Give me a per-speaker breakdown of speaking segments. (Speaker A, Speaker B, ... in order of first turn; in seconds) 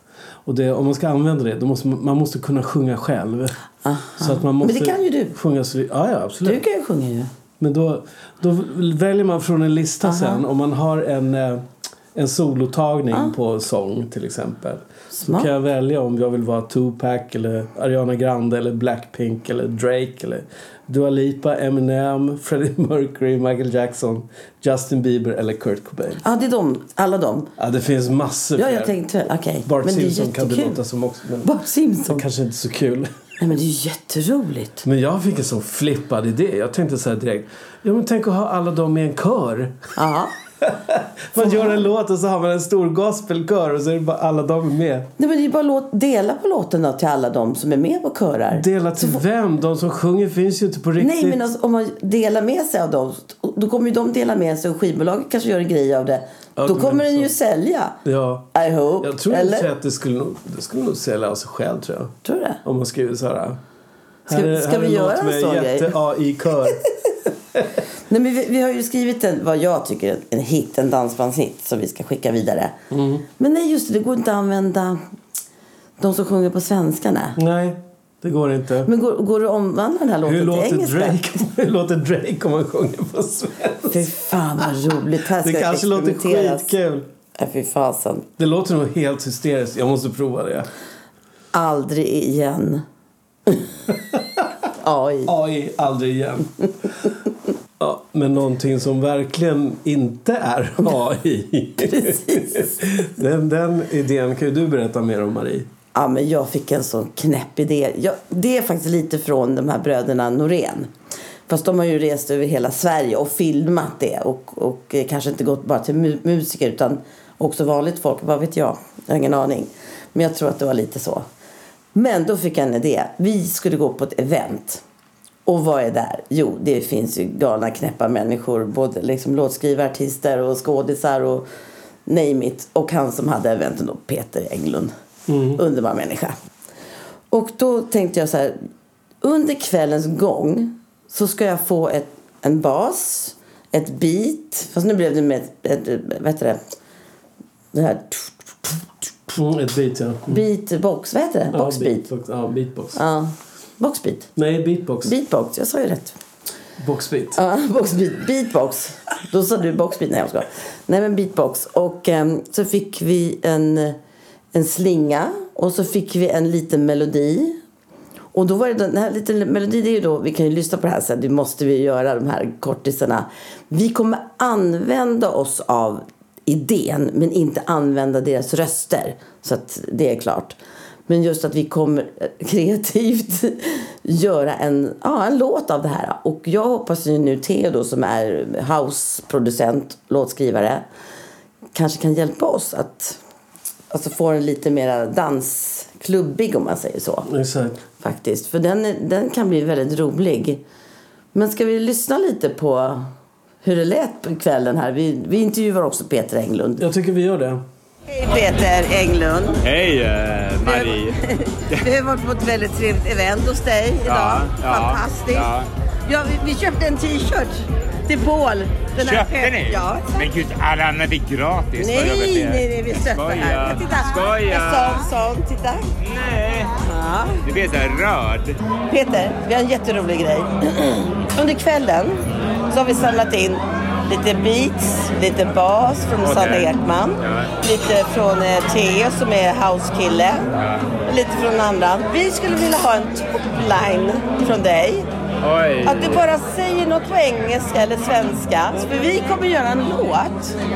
Speaker A: 0.5-3.6, 4.2-6.6, 7.6-26.2, 27.6-28.9, 29.6-31.5, 32.1-33.1, 34.8-39.9, 40.6-45.1, 48.5-51.4, 56.6-57.3, 58.0-63.6, 64.3-66.8, 72.9-73.3, 77.4-78.9, 80.2-84.8, 85.4-87.1, 88.4-90.7, 93.9-94.5, 95.3-97.1, 97.8-105.7, 135.3-135.6, 149.3-150.4, 151.5-153.0, 154.4-155.1, 156.8-157.4, 197.3-197.8, 206.8-207.7
Speaker B: 3.9-5.4, 6.4-7.3, 10.0-10.4, 15.1-15.5, 26.2-27.5, 28.6-30.8, 31.4-32.2, 33.4-34.8, 40.0-40.3, 41.4-41.8, 45.2-49.2, 51.0-58.0, 58.5-59.7, 62.2-62.6, 64.3-66.0, 66.8-67.1, 68.1-72.8, 73.4-75.0, 76.0-77.4, 78.8-81.4, 83.9-86.7, 87.3-88.3, 91.5-92.8, 94.8-95.3, 101.9-102.7, 105.9-110.9, 111.5-121.3, 121.9-124.8, 125.5-131.5, 132.1-134.9, 135.5-136.3, 137.3-138.7, 139.2-146.6, 147.7-148.8, 150.3-152.1, 152.9-154.3, 155.0-156.2, 157.3-164.0, 164.5-167.6, 168.3-190.9, 191.7-193.2, 193.9-197.3, 198.0-200.6, 201.3-203.1, 203.6-206.8, 208.1-209.6, 210.7-215.5, 216.1-220.1, 221.8-225.9, 226.8-227.4, 228.9-240.5, 241.1-245.1, 245.8-250.6
Speaker C: 209.6-211.2, 214.1-215.7, 219.0-225.1, 226.0-226.8, 227.4-228.6, 236.2-237.5, 240.6-240.9, 245.4-246.2